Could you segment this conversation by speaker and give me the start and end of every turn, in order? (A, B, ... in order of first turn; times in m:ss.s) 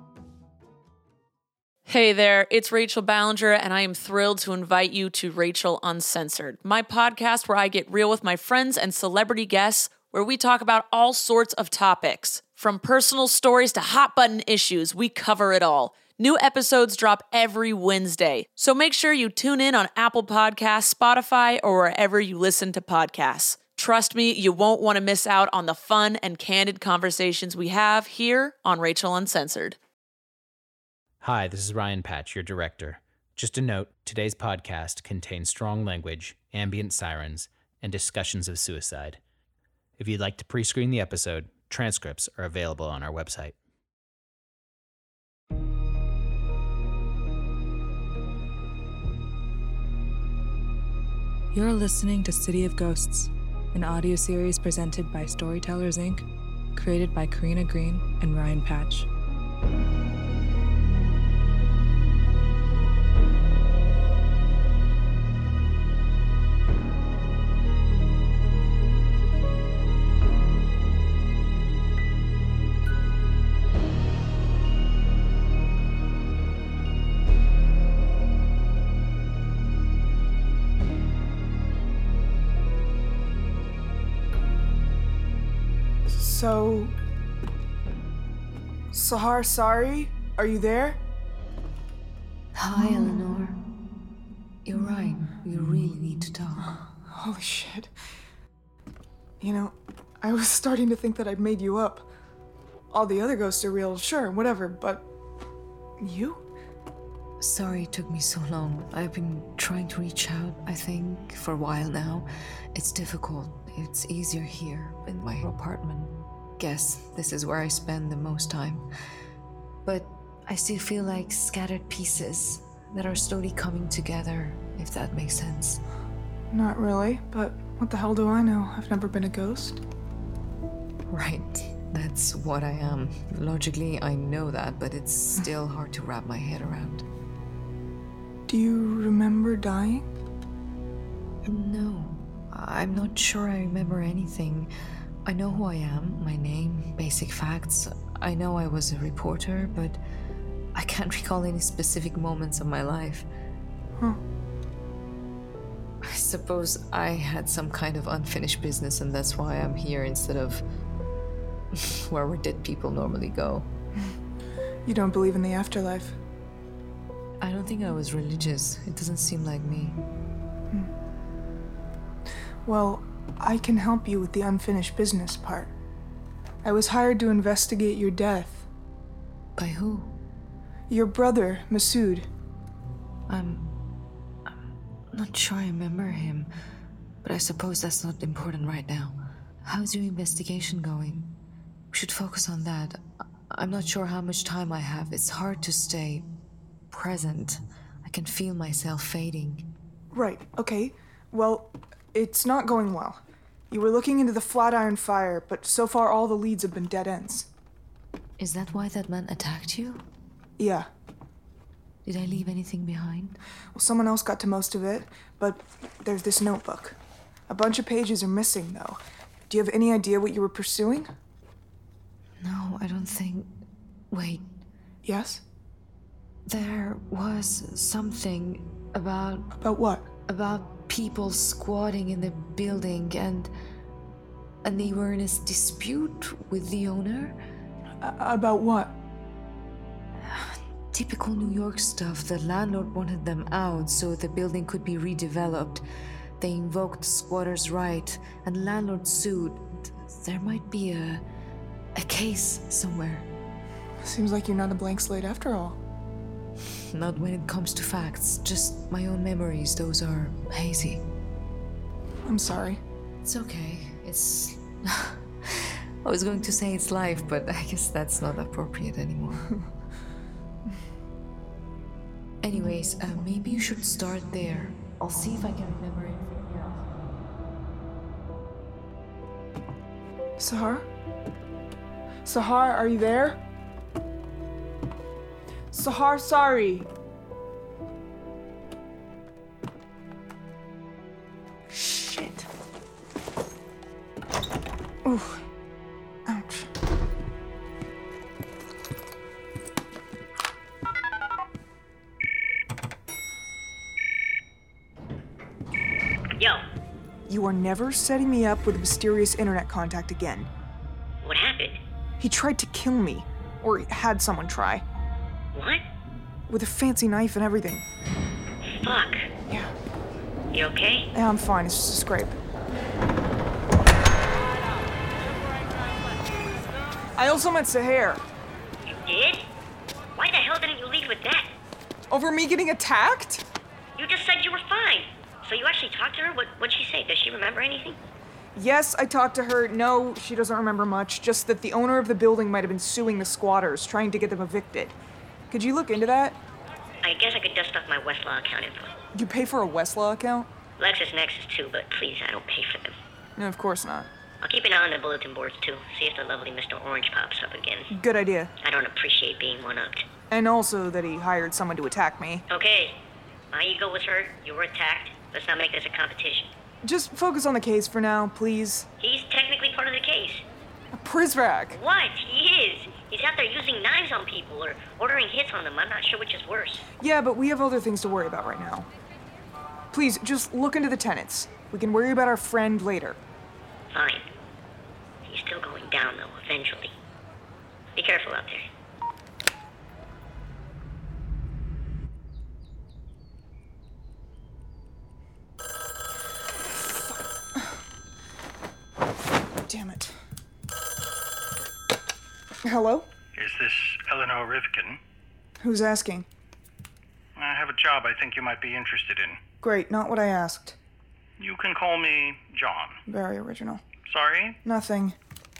0:01.9-0:29.8 A
0:31.2-0:39.2 B
0:40.0-0:43.5 B
0:51.5-0:59.1 C
1:26.1-1:26.9 D
1:28.9-1:31.0 D
1:32.5-1:33.6 E
1:34.6-1:36.8 E
1:36.6-1:37.9 D
1:39.4-1:42.1 D
1:42.9-1:45.0 D
1:46.0-1:46.4 D
1:47.4-1:58.9 E
1:59.8-2:05.8 E
2:06.5-2:09.8 D
2:11.1-2:17.0 E
2:18.5-2:20.0 D
2:21.4-2:24.7 E
2:25.2-2:30.0 E
2:30.7-2:33.2 E
2:36.0-2:40.6 E
2:41.7-2:43.7 E
2:44.8-2:46.2 D
2:47.4-2:50.0 E
2:52.6-2:55.7 D
2:56.6-2:58.7 D
2:59.6-3:00.2 E
3:00.9-3:02.3 D
3:03.3-3:03.8 E
3:05.1-3:06.5 E
3:07.2-3:11.4 E
3:11.9-3:16.3 E
3:16.9-3:19.7 E
3:20.1-3:27.5 D
3:28.4-3:30.0 E
3:30.6-3:30.9 D
3:32.0-3:33.4 E
3:33.7-3:37.0 D
3:37.5-3:41.1 D
3:42.4-3:43.6 E
3:44.1-3:44.4 E
3:45.0-3:45.4 D
3:46.4-3:49.5 E
3:49.6-3:50.1 D
3:50.2-3:53.5 E
3:54.6-3:57.4 E
3:58.0-3:58.9 D
4:00.2-4:05.8 E
4:06.4-4:11.2 E
4:12.0-4:13.3 E
4:14.0-4:15.8 D
4:16.9-4:21.0 E
4:22.2-4:22.8 D
4:23.2-4:29.5 E
4:32.4-4:37.2 E
4:40.4-4:40.8 D
4:42.2-4:43.4 D
4:45.7-4:46.9 D
4:51.7-4:52.5 D
4:55.0-4:55.4 D
4:56.2-4:56.7 D
5:07.3-5:10.5 D
5:11.2-5:11.8 F
5:12.2-5:14.8 D
5:15.5-5:15.8 F
5:16.5-5:17.8 D
5:18.8-5:19.2 F
5:19.5-5:19.7 D
5:20.5-5:21.1 F
5:21.1-5:22.4 D
5:27.2-5:28.2 D
5:28.8-5:29.4 F
5:30.2-5:31.5 F
5:32.1-5:33.4 D
5:34.0-5:38.0 F
5:38.5-5:45.0 D
5:45.5-5:46.4 D
5:47.0-5:48.9 F
5:49.1-5:50.5 D
5:50.8-5:53.0 F
5:53.4-5:54.1 D
5:54.4-5:57.9 F
5:57.9-5:58.5 D
5:58.6-6:00.0 F
6:00.3-6:02.4 D
6:02.5-6:03.0 F
6:03.5-6:06.5 F
6:06.8-6:08.9 D
6:09.0-6:10.4 F
6:10.9-6:11.8 D
6:11.7-6:16.9 F
6:17.0-6:18.9 D
6:19.9-6:23.2 D
6:23.9-6:24.3 F
6:25.2-6:26.9 F
6:28.0-6:28.6 F
6:39.7-6:40.1 D
6:42.6-6:43.1 D
6:43.4-6:45.0 G
6:45.6-6:46.2 D
6:47.4-6:49.4 G
6:49.6-6:50.8 D
6:51.4-6:53.0 G
6:53.1-6:53.8 D
6:54.0-6:54.6 G
6:54.6-6:55.2 D